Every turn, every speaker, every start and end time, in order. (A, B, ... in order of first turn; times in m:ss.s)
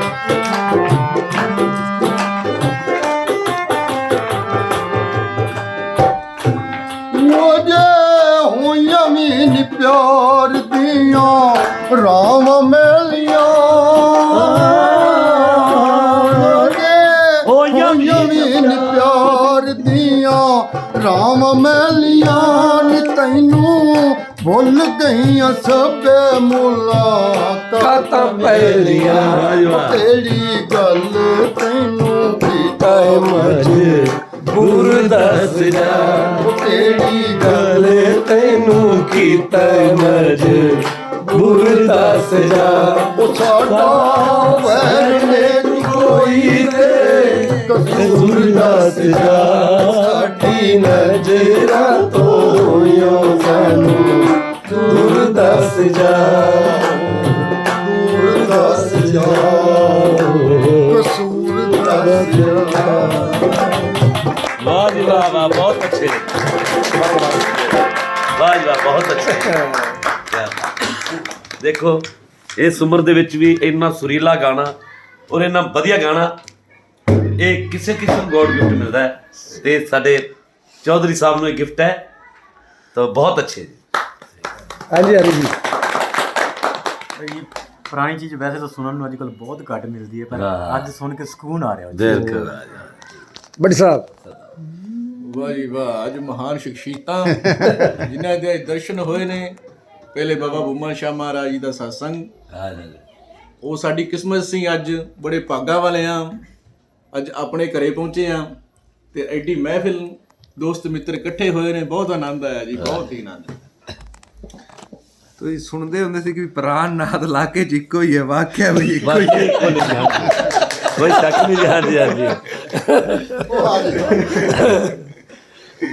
0:07.1-0:33.4 A
0:14.3-0:16.8 B
0:17.5-0:19.4 B
0:27.8-0:29.5 C
0:28.5-0:30.0 B
0:32.8-0:36.4 C
0:33.3-0:36.5 B
0:36.4-0:38.0 A
0:37.1-0:43.3 C
0:38.9-0:40.8 B
0:41.4-0:42.7 B
0:43.1-0:51.2 A
0:43.7-0:44.9 B
0:44.6-0:57.5 C
0:47.9-0:50.2 B
0:52.3-0:55.4 A
0:57.7-1:00.2 A
0:58.2-1:00.2 C
0:59.8-1:00.6 B
1:00.8-1:03.9 A
1:02.5-1:03.5 B
1:04.6-1:06.4 B
1:04.9-1:05.6 C
1:07.0-1:07.4 C
1:07.4-1:07.7 B
1:08.3-1:09.6 B
1:09.3-1:09.9 C
1:10.3-1:14.8 B
1:15.3-1:16.3 B
1:17.4-1:20.3 B
1:20.8-1:22.0 B
1:22.9-1:23.8 B
1:24.9-1:25.5 C
1:27.1-1:32.5 D
1:30.3-1:30.9 B
1:31.9-1:33.0 B
1:33.6-1:34.1 C
1:35.2-1:39.6 E
1:40.1-1:42.3 E
1:42.5-1:43.0 B
1:43.6-1:46.4 E
1:47.1-1:48.5 E
1:49.1-1:53.6 E
1:55.4-1:59.8 F
1:59.0-2:02.6 B
2:02.7-2:03.4 C
2:03.4-2:04.7 A
2:04.4-2:05.0 C